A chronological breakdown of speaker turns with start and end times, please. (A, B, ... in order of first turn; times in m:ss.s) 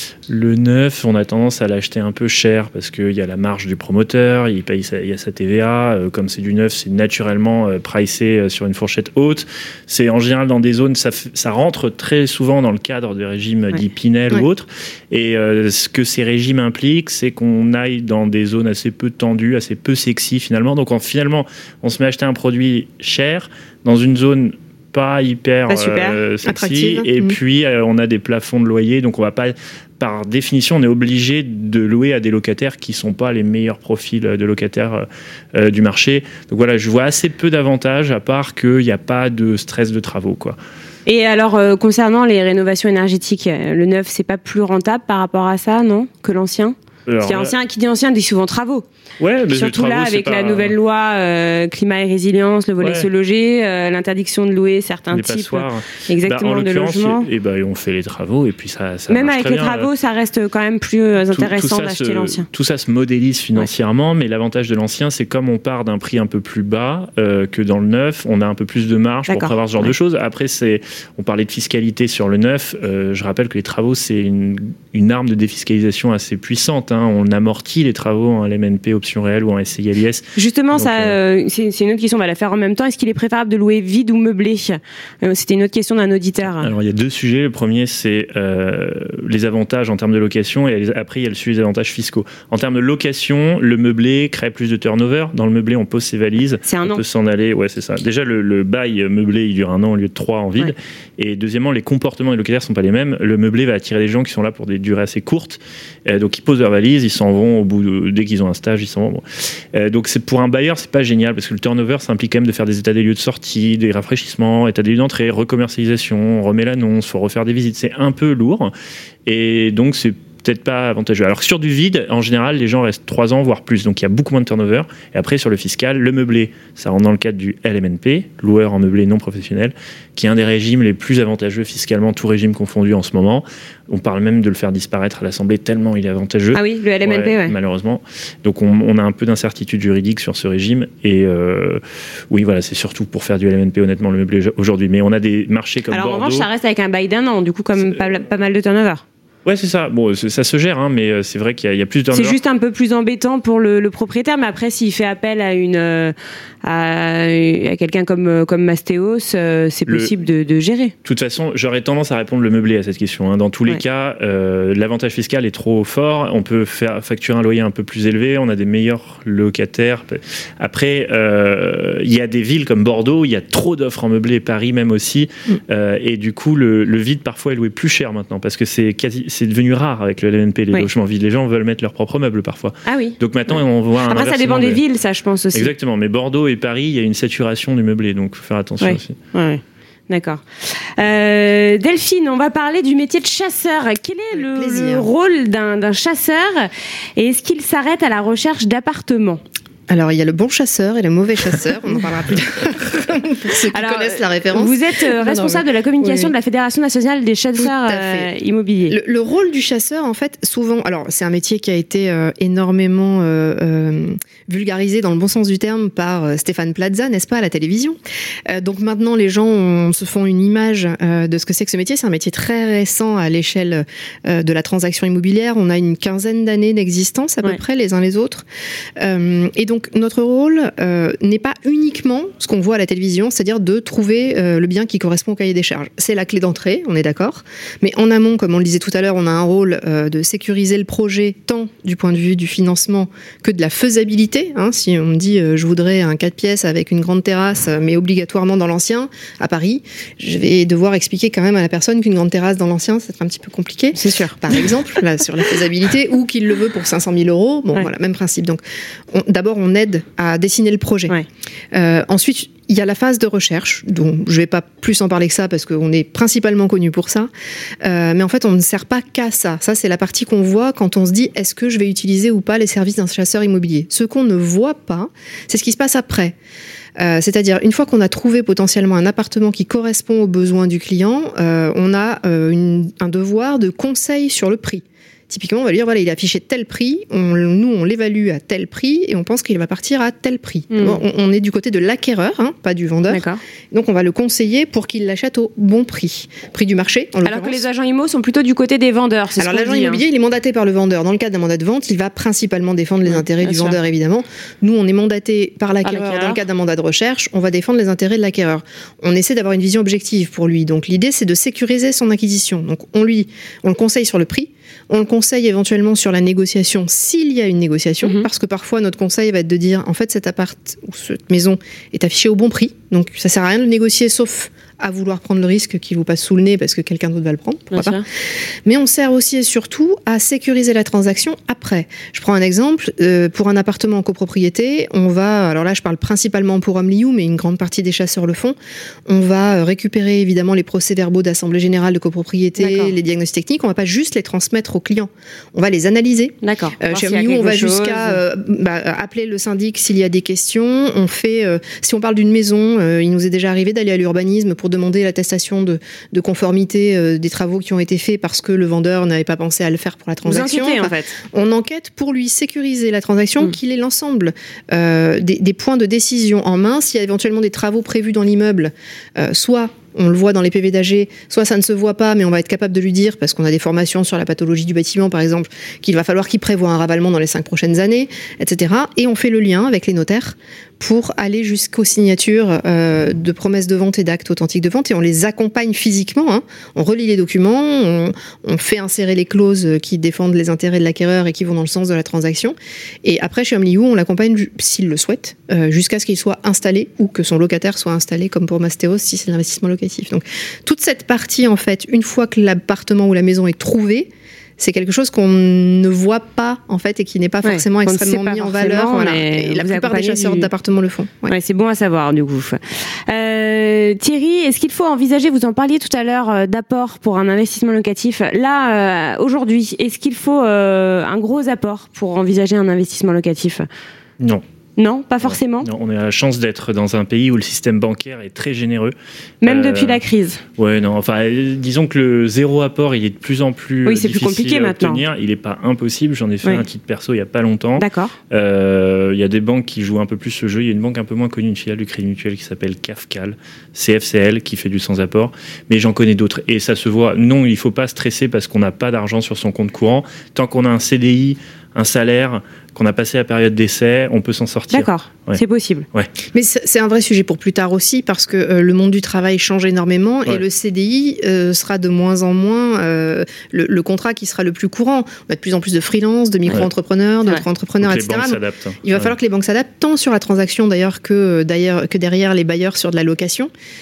0:00.3-0:40.6 A
0:25.7-0:26.2 B
0:26.4-0:27.4 C
0:41.0-0:48.8 B
0:47.1-0:47.5 A
0:49.2-0:50.7 A
0:49.5-0:57.3 B
0:52.8-0:53.1 A
0:55.1-0:59.9 A
0:59.1-1:02.5 B
1:01.3-1:21.1 A
1:09.3-1:09.9 B
1:20.4-1:26.7 B
1:26.6-1:58.7 A
1:36.6-1:37.0 B
1:59.2-2:26.5 A
2:16.5-2:17.5 B
2:25.9-2:29.0 B
2:29.4-2:32.4 A
2:32.1-2:40.9 B
2:39.9-2:40.1 A
2:41.0-3:04.8 A
3:02.8-3:05.7 B
3:05.5-3:09.2 A
3:08.8-3:19.4 B
3:14.4-3:15.1 C
3:19.9-3:26.3 C
3:23.5-3:29.0 B
3:27.6-3:28.3 C
3:28.9-3:48.4 C
3:49.0-4:21.2 C
4:13.9-4:14.7 B
4:21.7-4:27.3 C
4:27.8-4:36.3 C
4:37.0-4:57.6 C
4:50.7-4:51.0 B
4:53.1-4:53.4 B
4:57.2-5:00.0 B
4:59.4-5:28.0 C
5:03.1-5:03.8 B
5:05.8-5:06.4 B
5:27.7-5:28.0 B
5:28.6-6:51.3 C
5:42.6-5:42.9 B
5:46.4-5:48.2 B
6:00.2-6:01.2 B
6:47.4-6:50.5 B
6:51.3-7:03.7 B
7:04.2-7:04.4 A
7:04.8-7:05.7 B
7:05.2-7:10.0 A
7:09.4-7:10.4 B
7:10.6-7:35.4 A
7:13.8-7:15.0 B
7:17.8-7:18.2 B
7:34.7-7:35.8 B
7:36.3-7:53.5 C
7:47.8-7:49.1 A